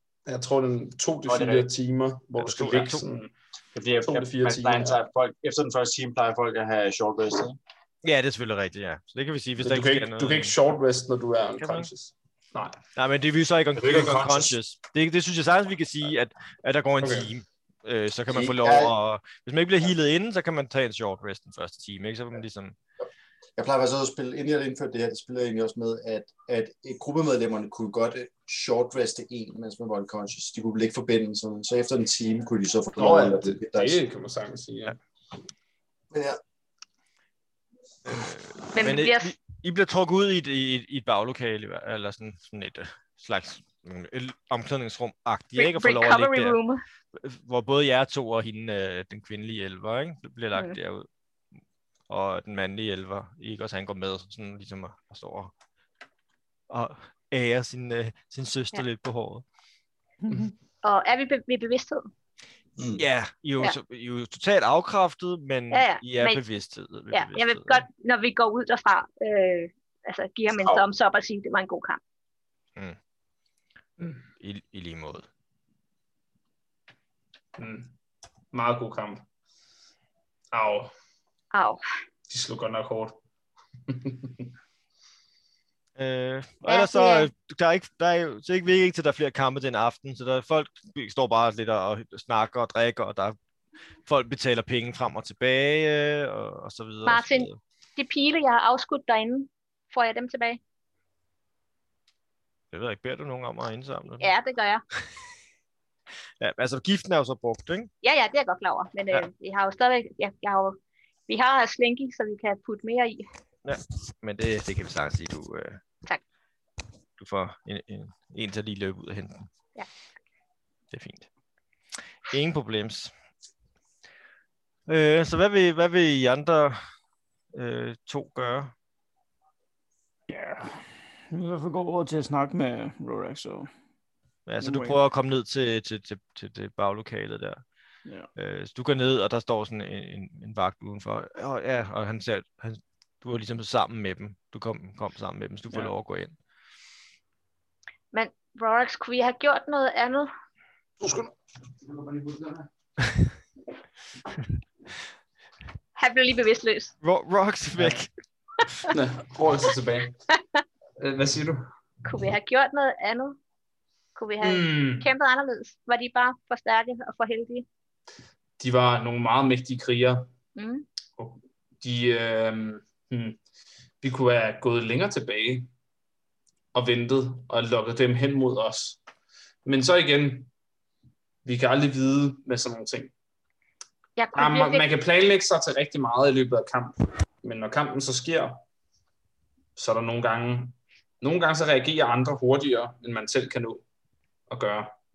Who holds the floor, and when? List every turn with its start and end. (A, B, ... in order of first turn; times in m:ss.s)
0:00.3-0:03.3 A
0:01.3-0:01.7 B
0:02.4-0:03.0 C
0:03.8-0:07.6 B
0:04.0-0:05.0 A
0:08.0-0:10.6 C
0:09.6-0:12.8 A
0:11.6-0:11.9 C
0:13.0-0:22.8 C
0:13.8-0:14.6 B
0:17.0-0:17.3 A
0:18.3-0:18.9 B
0:23.6-0:34.0 B
0:33.0-0:35.0 A
0:36.1-0:36.4 B
0:38.0-0:46.6 C
0:38.8-0:39.4 D
0:45.6-0:46.8 D
0:47.1-0:51.1 C
0:52.1-0:55.5 C
0:56.7-0:59.4 C
1:00.2-1:00.5 E
1:00.8-1:02.0 D
1:02.8-1:03.0 B
1:03.0-1:07.9 C
1:05.7-1:06.4 D
1:07.1-1:12.0 D
1:14.4-1:15.3 C
1:17.6-1:18.0 A
1:18.5-1:19.2 A
1:20.5-1:20.9 A
1:21.5-1:21.8 D
1:22.3-1:23.2 A
1:23.9-1:24.5 A
1:26.0-1:33.4 C
1:26.7-1:27.3 D
1:34.1-1:37.6 C
1:37.0-1:40.6 D
1:42.7-1:44.3 C
1:44.2-1:44.8 D
1:46.4-1:47.9 C
1:48.0-1:50.8 D
1:51.3-1:53.3 D
1:53.6-1:55.8 C
1:57.2-1:59.5 C
2:00.9-2:01.3 C
2:02.2-2:03.1 C
2:04.9-2:06.8 C
2:07.6-2:08.7 C
2:10.3-2:13.7 E
2:14.5-2:17.6 C
2:14.6-2:15.0 E
2:18.4-2:26.4 C
2:28.1-2:30.3 D
2:31.0-2:31.3 A
2:32.1-2:32.5 A
2:36.0-2:36.9 D
2:37.0-2:38.1 C
2:38.9-2:40.2 A
2:41.0-2:41.6 A
2:42.0-2:43.4 D
2:44.2-2:47.7 D
2:44.4-2:45.1 A
2:48.6-2:50.3 A
2:50.6-2:50.9 D
2:51.2-2:53.4 A
2:54.0-2:55.7 A
2:56.7-2:59.0 A
2:59.7-3:00.5 A
3:01.4-3:03.1 A
3:04.2-3:04.8 D
3:04.4-3:08.6 A
3:09.8-3:13.8 A
3:14.5-3:14.9 A